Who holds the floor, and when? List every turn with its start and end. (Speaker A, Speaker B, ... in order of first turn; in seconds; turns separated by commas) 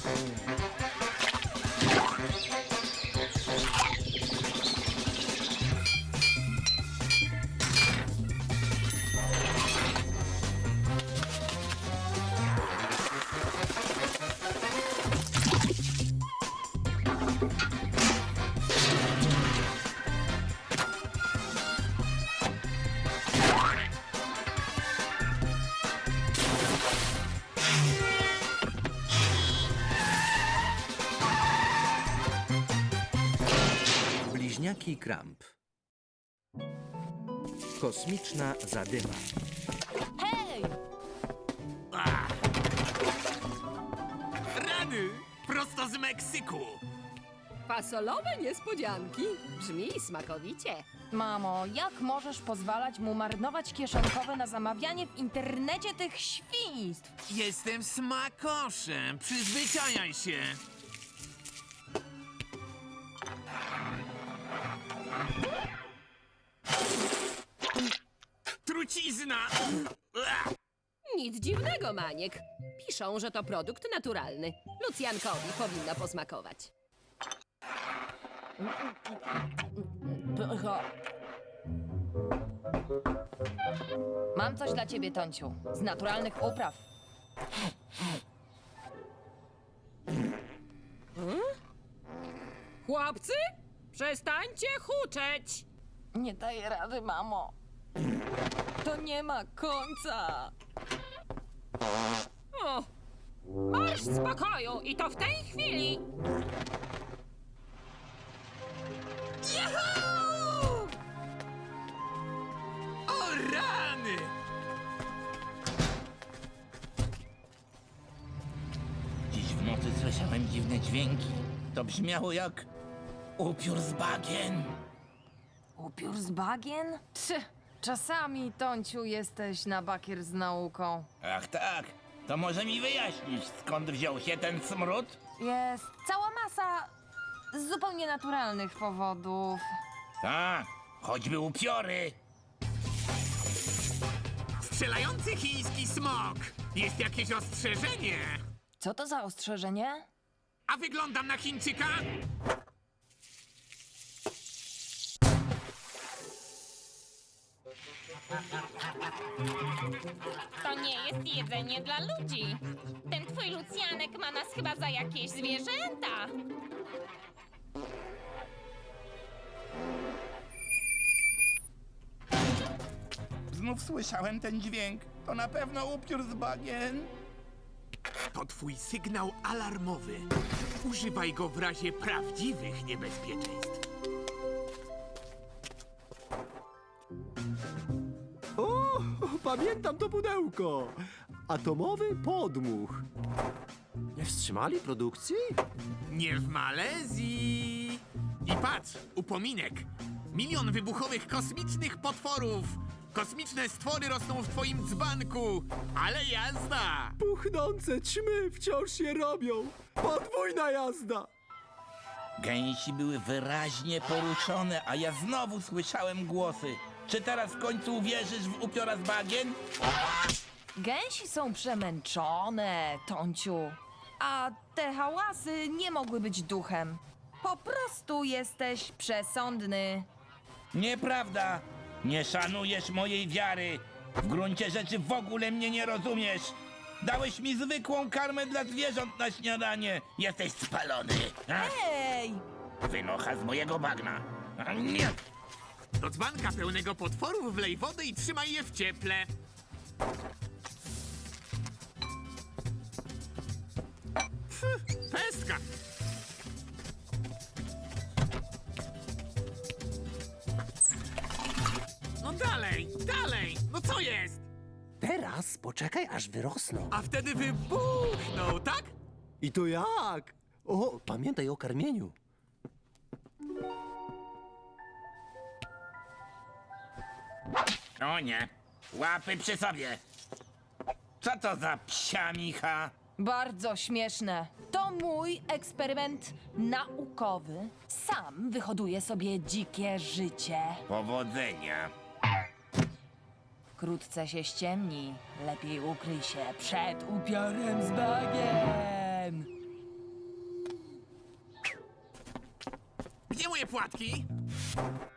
Speaker A: 34.2-35.5, Speaker A: 37.8-39.3, Speaker B: 40.2-40.8, Speaker C: 41.9-42.4, Speaker C: 44.5-46.8, Speaker D: 47.7-50.9, Speaker B: 51.1-57.1, Speaker C: 57.3-60.6, Speaker C: 68.6-70.4, Speaker D: 71.1-76.7, Speaker B: 78.6-79.1, Speaker B: 79.8-80.9, Speaker B: 84.3-86.8, Speaker D: 91.1-91.5, Speaker D: 92.8-95.6, Speaker B: 96.1-97.5, Speaker B: 98.8-100.5, Speaker D: 102.5-102.9, Speaker D: 103.7-106.0, Speaker C: 109.4-110.7, Speaker C: 113.1-114.3, Speaker E: 119.3-122.7, Speaker E: 123.4-124.8, Speaker B: 125.8-131.1, Speaker E: 131.2-135.2, Speaker B: 135.4-136.9, Speaker B: 137.5-139.7, Speaker E: 140.2-142.2, Speaker C: 144.6-148.4, Speaker B: 148.8-150.1, Speaker C: 150.7-152.1, Speaker F: 160.6-166.3, Speaker E: 173.5-177.1, Speaker C: 178.3-180.3, Speaker C: 180.8-183.8, Speaker G: 188.6-193.0, Speaker G: 194.1-195.6, Speaker C: 196.1-207.2, Speaker G: 207.2-211.3, Speaker E: 212.4-219.6, Speaker B: 220.8-230.1, Speaker E: 230.7-241.7, Speaker B: 241.5-242.4, Speaker E: 242.8-245.2, Speaker C: 246.0-249.3, Speaker C: 254.5-255.6, Speaker C: 262.2-264.5, Speaker G: 265.0-266.9, Speaker C: 266.9-268.9, Speaker G: 269.4-272.1, Speaker E: 278.0-280.0, Speaker E: 281.2-282.9, Speaker B: 283.2-290.8, Speaker E: 290.9-291.9, Speaker B: 293.8-299.5, Speaker C: 303.3-304.3